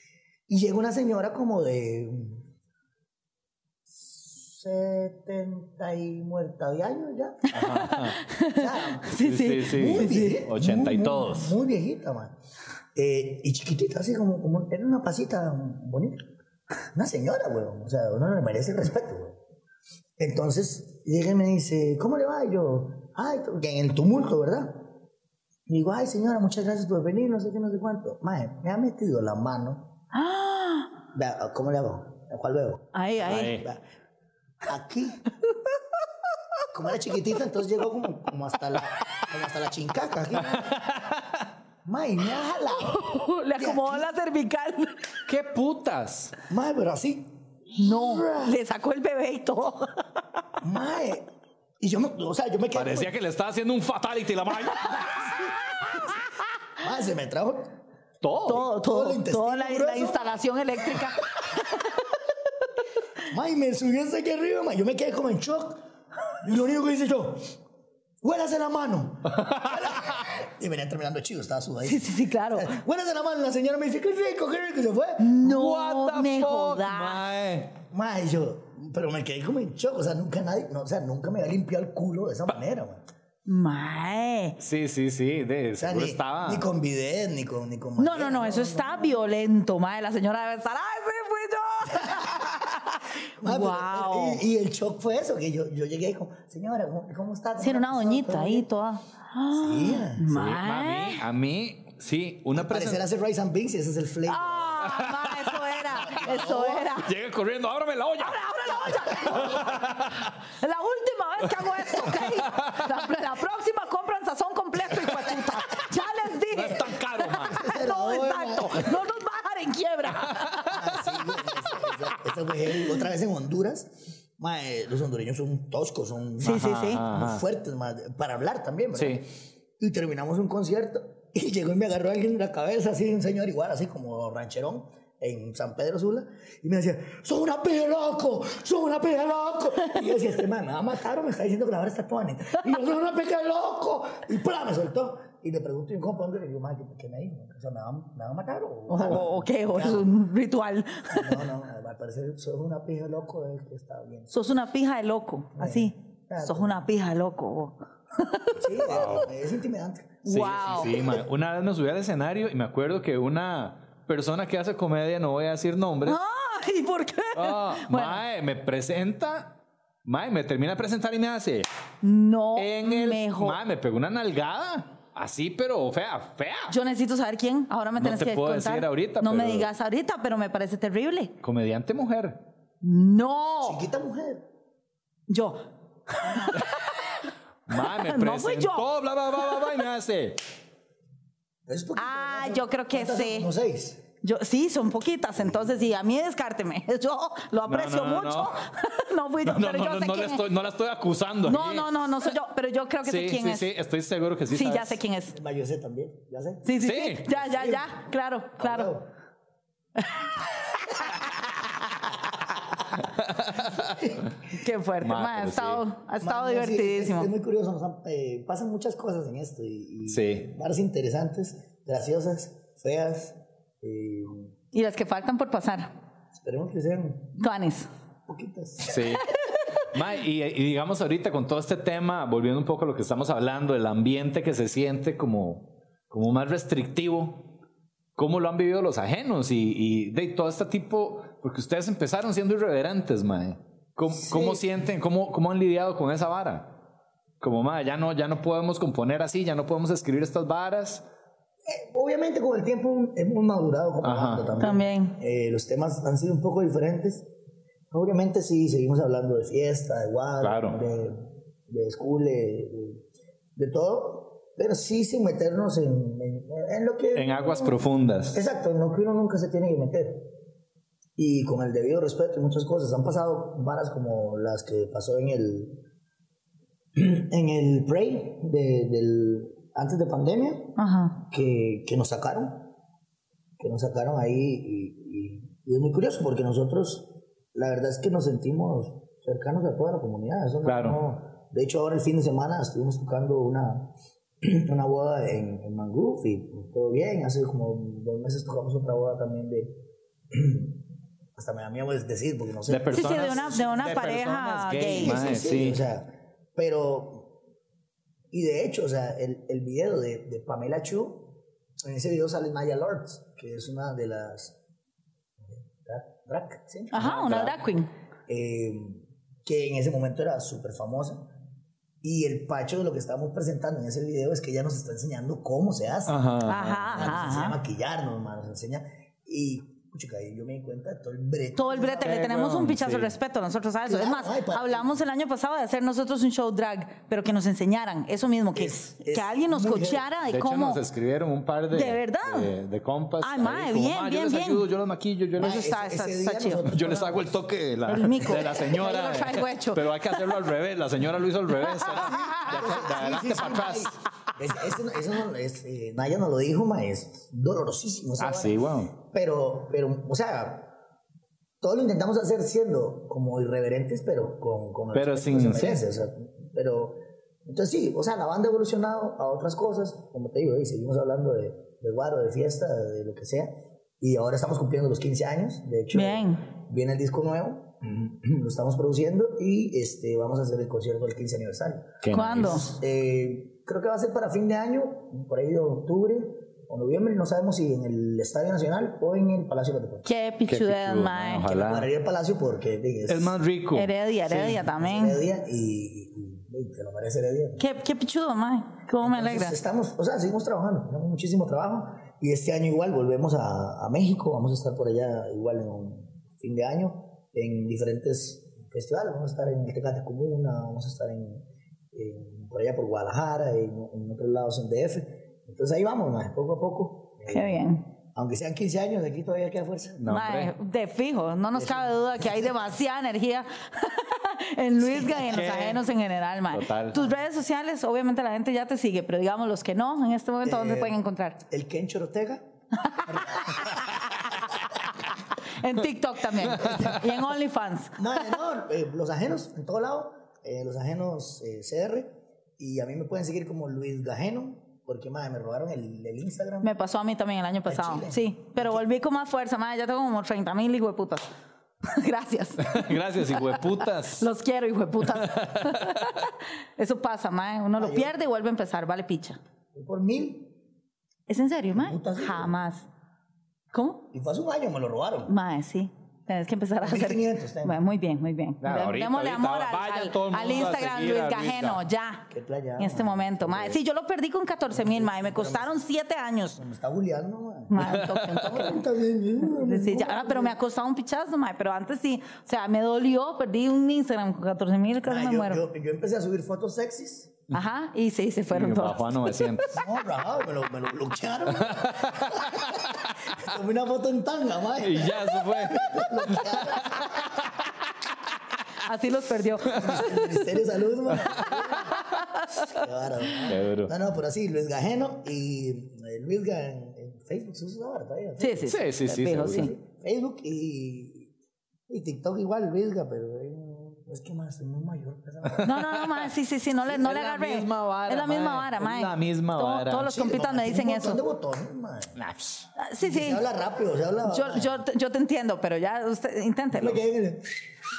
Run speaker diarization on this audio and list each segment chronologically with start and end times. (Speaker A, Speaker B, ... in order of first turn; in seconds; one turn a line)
Speaker A: 0.5-2.5
Speaker A: 3.9-7.5
Speaker B: 7.5-10.4
Speaker C: 7.5-8.2
Speaker A: 8.5-12.3
Speaker C: 9.1-11.6
Speaker A: 12.9-16.2
Speaker A: 16.8-19.4
Speaker A: 20.2-24.9
Speaker A: 25.7-29.9
Speaker B: 30.1-30.9
Speaker A: 31.1-33.8
Speaker B: 32.9-33.6
Speaker C: 33.2-33.6
Speaker A: 34.6-35.2
Speaker A: 36.7-41.0
Speaker C: 40.5-41.2
Speaker A: 41.9-44.1
Speaker B: 42.6-45.1
Speaker C: 45.3-46.3
Speaker A: 46.5-48.5
Speaker B: 47.7-50.2
Speaker A: 50.6-51.3
Speaker A: 51.8-53.1
Speaker C: 52.7-56.1
Speaker B: 54.9-56.0
Speaker A: 55.1-55.5
Speaker A: 56.8-57.7
Speaker C: 58.2-58.7
Speaker B: 58.5-62.1
Speaker A: 58.5-60.4
Speaker A: 63.3-67.4
Speaker A: 68.2-75.3
Speaker C: 69.4-69.7
Speaker B: 71.8-72.8
Speaker B: 75.2-77.3
Speaker C: 75.4-77.7
Speaker A: 77.9-83.0
Speaker B: 83.5-84.6
Speaker C: 84.6-86.7
Speaker A: 85.8-89.3
Speaker B: 88.0-94.4
Speaker A: 91.9-92.7
Speaker A: 93.4-98.7
Speaker B: 97.6-101.2
Speaker A: 99.5-100.3
Speaker C: 100.3-103.0
Speaker A: 102.5-104.9
Speaker B: 104.3-107.1
Speaker C: 104.8-105.6
Speaker A: 106.1-106.9
Speaker C: 107.0-110.4
Speaker B: 108.2-109.8
Speaker A: 109.2-109.8
Speaker B: 110.5-121.2
Speaker C: 111.6-112.9
Speaker C: 116.4-117.6
Speaker A: 117.5-119.0
Speaker C: 120.3-120.7
Speaker A: 120.7-129.3
Speaker B: 126.4-127.1
Speaker C: 126.4-127.4
Speaker C: 128.9-129.2
Speaker A: 129.8-150.1
Speaker B: 148.9-151.4
Speaker A: 151.1-154.3
Speaker B: 154.3-158.9
Speaker A: 155.6-156.8
Speaker A: 158.6-161.2
Speaker C: 158.8-159.3
Speaker B: 160.2-161.2
Speaker C: 160.3-166.2
Speaker B: 166.1-168.2
Speaker C: 167.3-171.7
Speaker B: 172.0-173.6
Speaker C: 172.6-176.7
Speaker B: 176.7-181.3
Speaker C: 178.0-179.7
Speaker C: 181.4-182.4
Speaker B: 182.8-183.8
Speaker A: 183.6-184.5
Speaker B: 185.3-188.8
Speaker C: 187.7-190.4
Speaker A: 191.7-194.0
Speaker B: 191.9-193.5
Speaker B: 194.2-200.5
Speaker A: 195.4-195.7
Speaker C: 197.7-198.6
Speaker C: 199.4-202.0
Speaker B: 201.4-203.7
Speaker C: 203.1-205.0
Speaker B: 204.5-205.4
Speaker A: 205.3-206.7
Speaker B: 206.6-208.9
Speaker C: 206.8-207.3
Speaker A: 207.3-208.0
Speaker A: 208.6-209.1
Speaker B: 210.0-211.2
Speaker C: 213.1-214.1
Speaker A: 213.8-214.2
Speaker B: 214.5-217.3
Speaker C: 215.0-215.8
Speaker A: 216.2-224.5
Speaker C: 220.1-220.5
Speaker B: 224.7-225.9
Speaker A: 226.4-227.3
Speaker B: 227.4-227.9
Speaker A: 228.3-229.2
Speaker C: 228.9-229.3
Speaker B: 229.3-229.8
Speaker C: 229.9-237.5
Speaker C: 238.2-246.7
Speaker A: 244.1-244.6
Speaker C: 247.4-251.1
Speaker A: 251.7-257.3
Speaker C: 254.0-254.5
Speaker B: 254.6-255.2
Speaker A: 257.9-263.0
Speaker C: 260.4-260.8
Speaker A: 263.6-270.3
Speaker C: 267.1-268.4
Speaker A: 271.2-275.8
Speaker A: 276.9-282.7
Speaker B: 280.8-281.2
Speaker A: 283.6-299.8
Speaker C: 290.6-291.0
Speaker A: 300.3-300.8
Speaker A: 301.4-303.6
Speaker C: 302.7-305.8
Speaker B: 302.9-305.3
Speaker A: 304.7-307.3
Speaker A: 308.3-314.6
Speaker A: 315.4-317.6
Speaker B: 316.9-317.9
Speaker C: 316.9-317.5
Speaker A: 318.3-321.3
Speaker A: 322.0-326.3
Speaker C: 326.1-327.1
Speaker B: 326.4-327.6
Speaker A: 326.9-332.3
Speaker B: 331.6-340.8
Speaker C: 332.0-333.1
Speaker A: 333.9-335.0
Speaker A: 338.6-340.1
Speaker C: 340.3-345.7
Speaker B: 341.7-342.5
Speaker B: 343.2-344.6
Speaker A: 345.4-347.4
Speaker B: 345.4-346.7
Speaker C: 346.6-354.0
Speaker B: 347.9-350.4
Speaker B: 351.6-352.4
Speaker A: 351.9-360.7
Speaker C: 358.2-358.9
Speaker A: 361.6-390.1
Speaker C: 364.9-365.8
Speaker B: 375.9-376.4
Speaker C: 382.0-382.6
Speaker B: 382.1-382.7
Speaker B: 390.1-391.4
Speaker C: 390.5-391.9
Speaker A: 391.4-393.4
Speaker C: 393.1-394.6
Speaker B: 393.7-395.2
Speaker A: 394.3-397.6
Speaker B: 397.6-399.6
Speaker A: 399.0-420.1
Speaker B: 417.3-417.9
Speaker C: 420.0-420.5
Speaker B: 420.1-431.4
Speaker A: 421.5-422.6
Speaker A: 424.9-425.8
Speaker C: 425.3-425.8
Speaker C: 426.5-427.0
Speaker A: 430.4-434.7
Speaker B: 432.8-438.3
Speaker A: 436.5-437.1
Speaker A: 438.0-446.7
Speaker B: 446.6-451.3
Speaker A: 447.6-448.8
Speaker B: 451.8-459.4
Speaker C: 452.6-454.3
Speaker C: 455.1-456.2
Speaker A: 457.8-458.1
Speaker A: 459.7-460.6
Speaker B: 461.3-462.9
Speaker A: 461.7-462.5
Speaker B: 463.7-464.0
Speaker A: 464.1-465.3
Speaker B: 465.3-476.6
Speaker A: 466.8-467.8
Speaker C: 468.6-471.8
Speaker A: 472.3-473.8
Speaker A: 474.7-475.8
Speaker A: 476.6-480.6
Speaker B: 477.7-478.8
Speaker C: 477.8-478.6
Speaker B: 479.4-485.6
Speaker A: 485.0-487.4
Speaker B: 487.5-489.8
Speaker C: 488.5-489.7
Speaker A: 489.7-497.5
Speaker C: 491.6-493.1
Speaker C: 494.8-497.7
Speaker B: 498.8-500.4
Speaker A: 499.6-502.0
Speaker C: 501.2-502.0
Speaker B: 501.3-502.9
Speaker A: 502.6-508.7
Speaker C: 503.4-503.9
Speaker B: 508.4-509.7
Speaker C: 508.6-509.7
Speaker A: 509.3-511.3
Speaker A: 511.9-515.9
Speaker C: 515.5-516.0
Speaker B: 515.6-521.2
Speaker C: 516.9-520.1
Speaker A: 520.0-522.2
Speaker C: 522.2-522.7
Speaker B: 522.8-523.4
Speaker A: 523.0-524.8
Speaker B: 524.3-527.0
Speaker A: 526.7-527.7